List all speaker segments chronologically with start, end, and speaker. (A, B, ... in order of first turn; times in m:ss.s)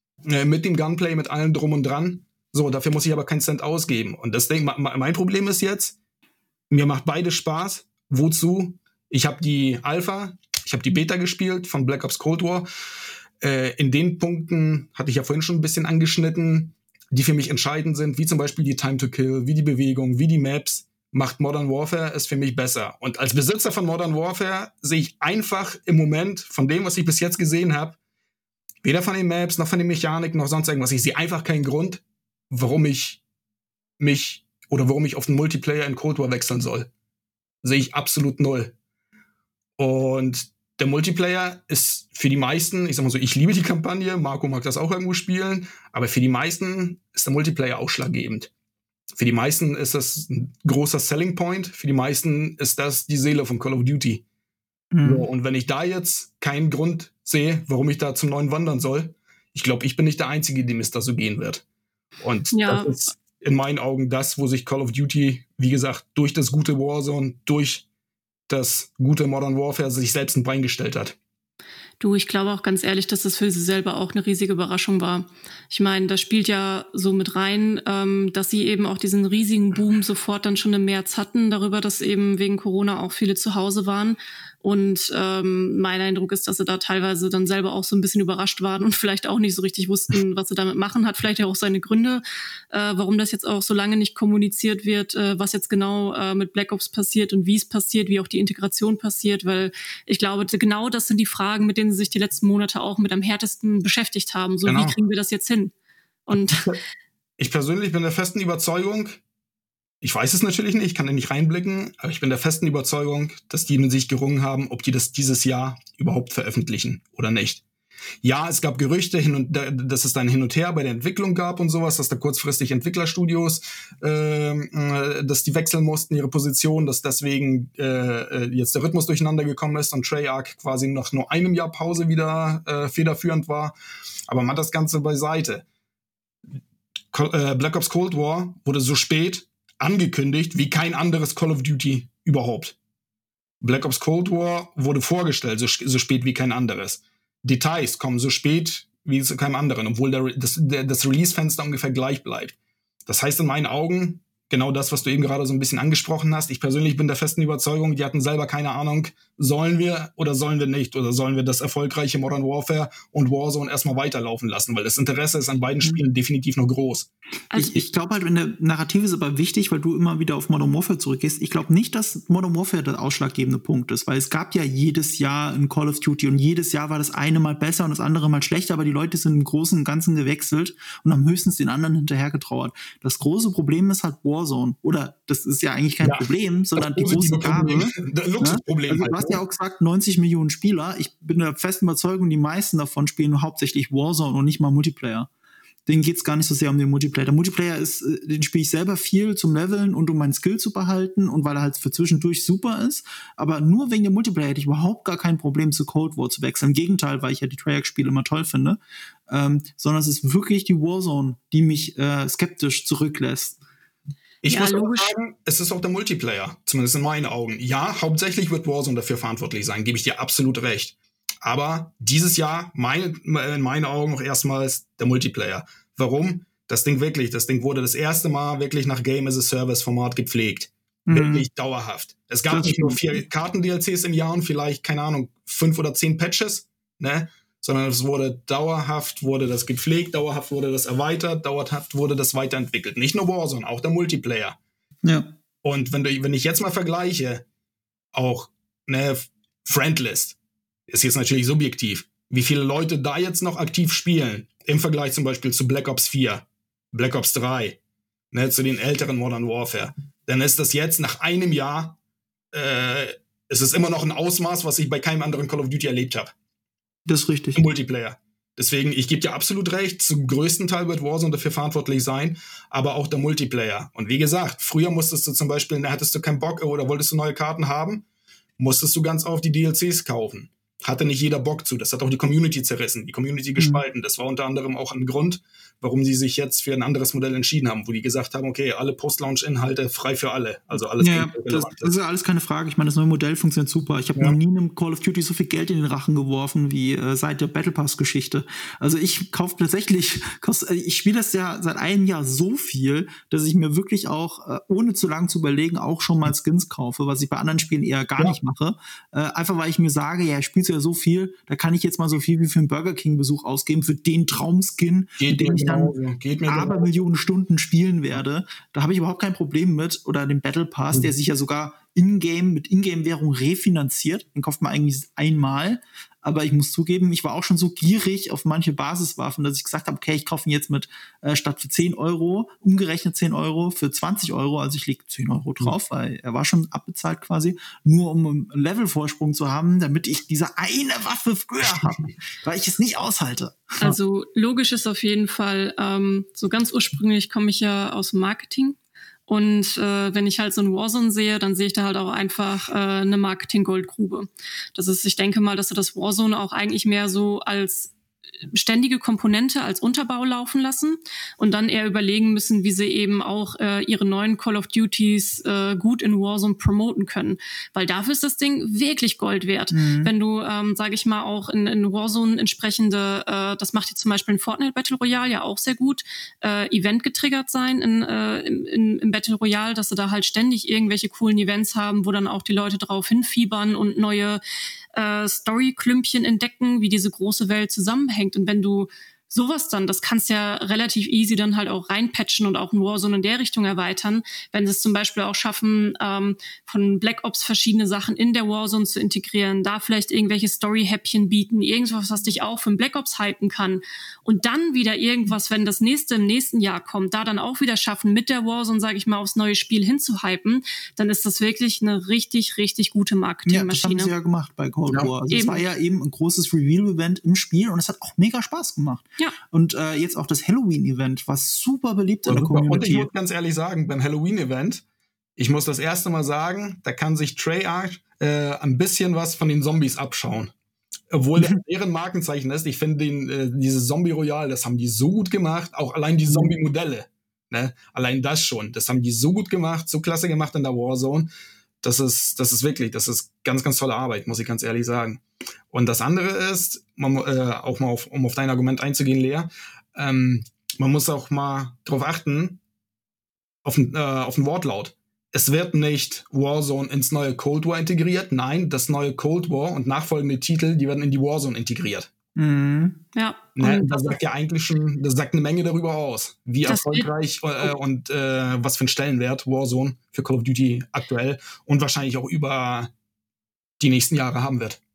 0:00.2-0:06.0 A
0:06.7-0:12.7 A
0:13.4-0:28.0 A
0:28.8-0:33.2 A
0:34.0-0:36.9 A
0:37.6-0:38.7 A
0:39.8-0:48.5 A
0:49.2-0:54.2 A
0:54.9-0:55.3 B
0:55.0-1:01.6 A
1:02.2-1:07.8 A
1:02.5-1:02.9 C
1:08.5-1:11.2 A
1:12.0-1:45.7 C
1:44.6-1:45.0 A
1:46.2-1:46.8 C
1:47.4-1:49.2 A
1:50.0-1:57.6 A
1:58.2-2:13.7 A
2:14.3-2:15.6 A
2:17.1-2:22.8 A
2:23.6-2:32.6 A
2:33.1-2:47.1 A
2:47.5-2:47.8 C
2:47.5-3:15.3 B
3:06.0-3:09.4 A
3:15.8-3:33.6 B
3:34.4-4:04.6 A
3:34.5-3:34.8 B
3:51.1-3:51.4 B
3:52.5-3:53.0 B
4:05.0-4:05.3 B
4:05.6-4:07.4 A
4:08.1-4:10.4 A
4:10.9-4:17.8 A
4:18.3-4:22.0 A
4:22.5-4:26.3 A
4:27.1-4:27.6 B
4:27.5-4:38.0 A
4:38.6-4:51.9 A
4:43.6-4:43.8 B
4:51.0-5:15.9 B
5:15.2-5:16.9 A
5:16.4-5:43.9 B
5:43.8-5:57.9 C
5:58.5-6:24.4 C
6:09.7-6:10.1 B
6:24.9-6:54.1 C
6:53.4-7:03.1 B
6:55.3-6:55.6 C
7:02.3-7:04.8 A
7:05.4-7:10.5 A
7:11.1-7:21.3 A
7:16.3-7:16.6 B
7:21.8-7:32.6 A
7:33.6-7:42.1 A
7:42.3-7:43.0 B
7:43.1-7:44.2 C
7:43.6-7:52.9 A
7:46.6-7:47.1 C
7:53.8-7:54.8 A